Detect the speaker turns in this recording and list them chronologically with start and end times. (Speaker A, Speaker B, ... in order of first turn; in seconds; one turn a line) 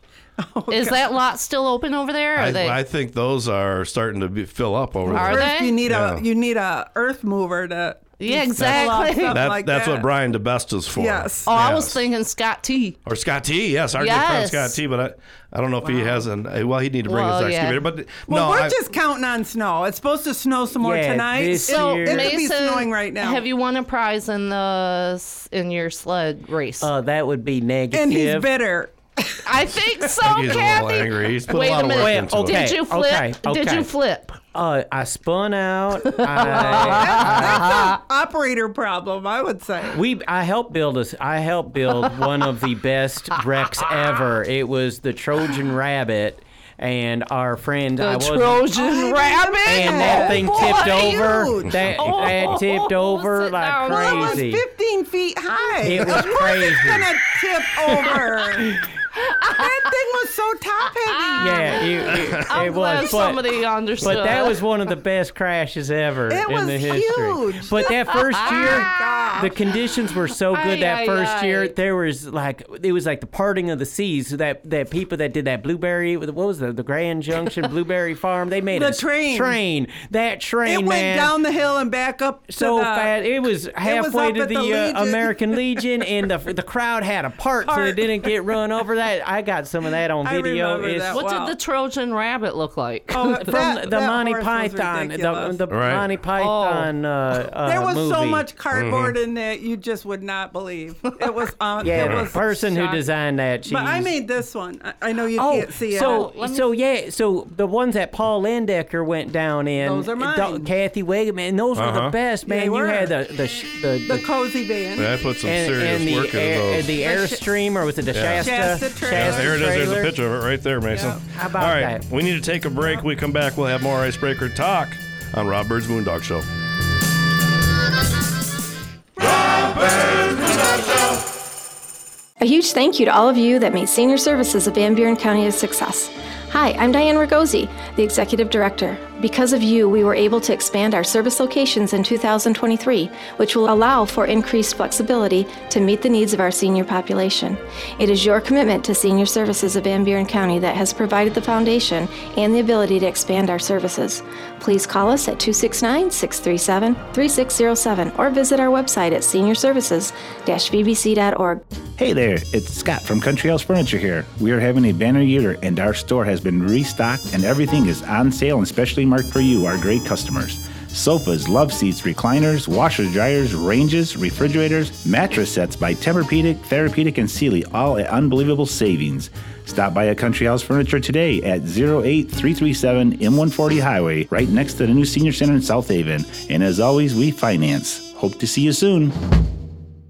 Speaker A: 0.4-1.1
Speaker B: 0.7-2.8
Speaker C: 2.4-6.2
Speaker A: 5.1-10.1
Speaker B: 5.1-5.8
Speaker B: 8.2-9.5
Speaker C: 8.6-12.0
Speaker A: 11.0-11.5
Speaker B: 11.5-13.0
Speaker C: 13.1-18.8
Speaker B: 14.0-14.8
Speaker A: 15.8-16.2
Speaker B: 17.1-17.9
Speaker A: 18.3-23.4
Speaker D: 20.8-22.3
Speaker B: 21.7-26.9
Speaker D: 26.8-28.5
Speaker A: 27.9-30.1
Speaker B: 29.4-34.4
Speaker C: 30.2-32.7
Speaker D: 32.0-33.9
Speaker D: 34.5-37.7
Speaker B: 36.4-38.0
Speaker A: 36.4-40.0
Speaker D: 39.9-48.8
Speaker B: 48.0-51.2
Speaker A: 48.7-51.8
Speaker D: 49.6-54.6
Speaker B: 52.0-54.4
Speaker A: 53.8-58.8
Speaker D: 55.8-57.2
Speaker D: 57.8-58.8
Speaker A: 59.5-61.9
Speaker B: 61.0-64.6
Speaker D: 61.4-81.4
Speaker A: 66.3-69.6
Speaker B: 68.2-69.0
Speaker B: 70.5-71.8
Speaker A: 78.7-79.6
Speaker A: 80.6-83.2
Speaker D: 82.5-91.2
Speaker A: 83.8-85.9
Speaker A: 87.7-88.4
Speaker A: 90.2-91.6
Speaker B: 91.1-93.6
Speaker A: 93.1-95.6
Speaker D: 93.3-98.5
Speaker C: 95.7-96.1
Speaker B: 96.4-96.9
Speaker A: 97.6-103.0
Speaker C: 98.7-99.2
Speaker D: 101.8-104.2
Speaker C: 101.9-102.3
Speaker A: 103.7-106.3
Speaker D: 105.3-114.3
Speaker B: 106.0-106.7
Speaker A: 109.8-110.7
Speaker C: 111.8-112.2
Speaker A: 112.5-113.2
Speaker A: 114.1-115.2
Speaker C: 115.0-117.0
Speaker D: 115.4-120.2
Speaker A: 117.0-117.4
Speaker C: 118.1-126.5
Speaker A: 118.4-119.7
Speaker A: 120.9-121.2
Speaker D: 121.2-122.0
Speaker E: 132.4-161.6
Speaker F: 162.0-189.2